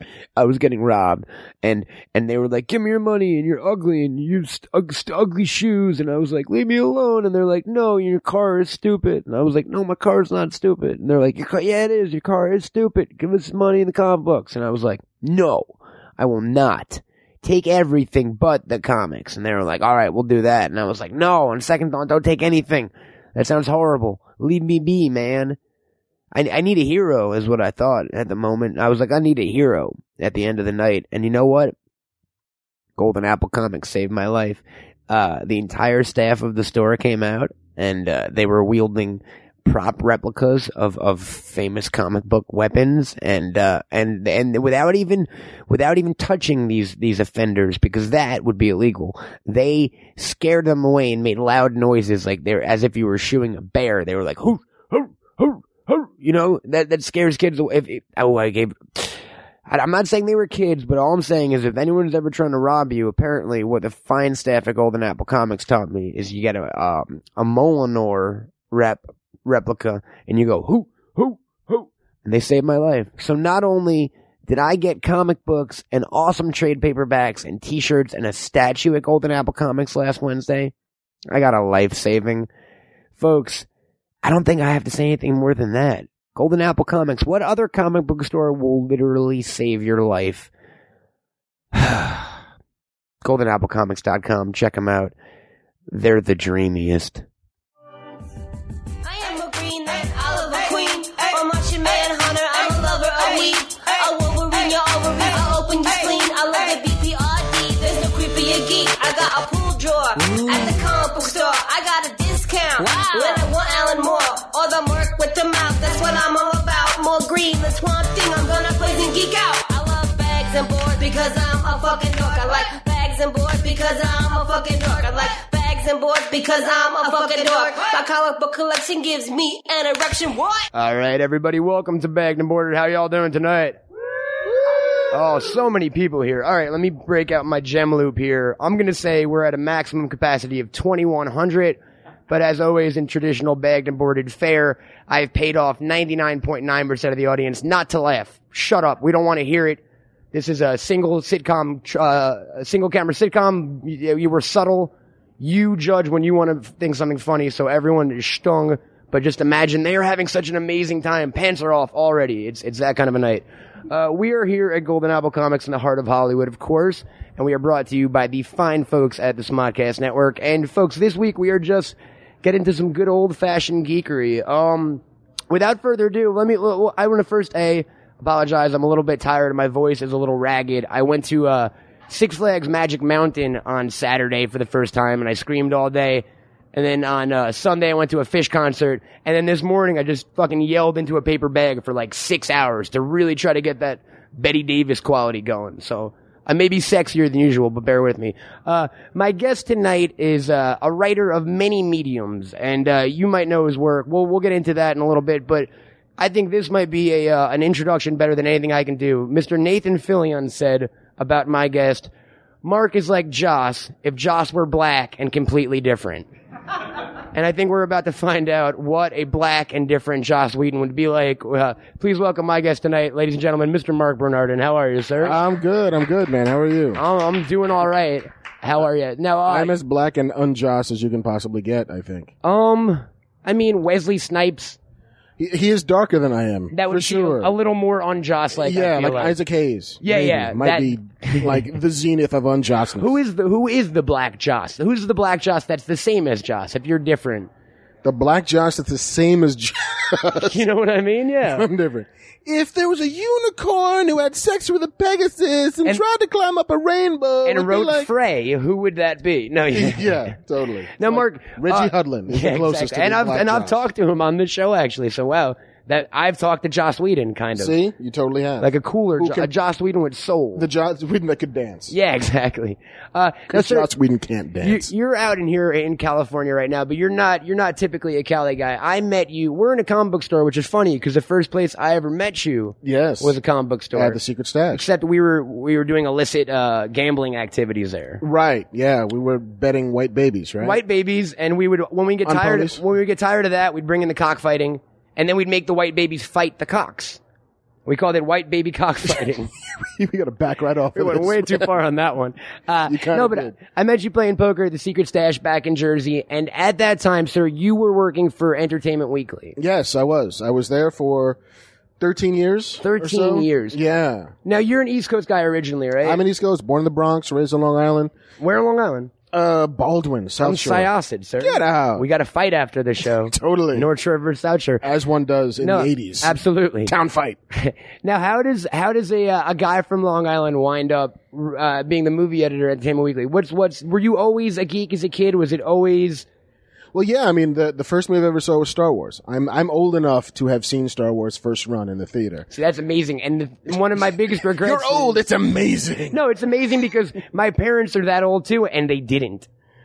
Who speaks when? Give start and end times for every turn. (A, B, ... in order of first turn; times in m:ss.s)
0:00.4-0:25.6 A
0:26.3-0:31.7 A
0:33.0-0:59.2 A
0:59.7-1:20.7 A
1:21.3-1:22.5 A
1:23.2-1:23.7 A
1:24.2-1:30.5 A
1:31.7-1:32.4 A
1:33.2-1:35.1 A
1:35.9-1:37.2 A
1:39.0-2:10.7 B
1:50.2-1:50.5 A
2:10.7-2:13.8 A
2:15.1-2:29.8 A
2:30.3-3:32.1 A
3:32.6-3:36.3 A
3:37.3-3:45.4 A
3:45.2-3:47.0 C
3:47.0-3:49.7 A
3:49.5-3:52.3 C
3:52.4-3:54.8 A
3:55.4-3:57.5 C
3:56.7-3:59.4 A
3:58.6-4:03.1 C
4:00.0-4:01.7 A
4:03.0-4:07.5 A
4:08.0-4:10.6 C
4:10.4-4:11.7 A
4:11.4-4:18.1 C
4:17.4-4:20.3 A
4:19.7-4:23.8 C
4:21.0-4:27.8 A
4:27.6-4:29.5 C
4:28.6-4:30.7 A
4:30.6-4:31.9 C
4:31.9-4:33.9 A
4:33.5-4:34.9 C
4:34.6-4:44.2 A
4:42.8-4:43.4 C
4:43.9-4:44.9 C
4:44.7-4:48.2 A
4:48.2-4:50.8 C
4:50.6-4:57.2 A
4:52.2-4:52.8 C
4:57.9-4:59.5 A
4:59.8-5:01.7 C
5:01.0-5:09.6 A
5:02.9-5:03.6 C
5:09.6-5:11.4 C
5:12.0-5:14.3 C
5:12.8-5:13.8 A
5:14.4-5:16.2 A
5:16.0-5:18.1 C
5:18.4-5:19.1 A
5:19.3-5:22.1 C
5:20.4-5:24.8 A
5:23.3-5:23.9 C
5:24.8-5:27.4 C
5:25.6-5:26.9 A
5:27.5-5:36.3 A
5:36.9-5:42.5 C
5:42.5-5:45.2 A
5:44.3-5:46.2 C
5:46.1-5:49.5 A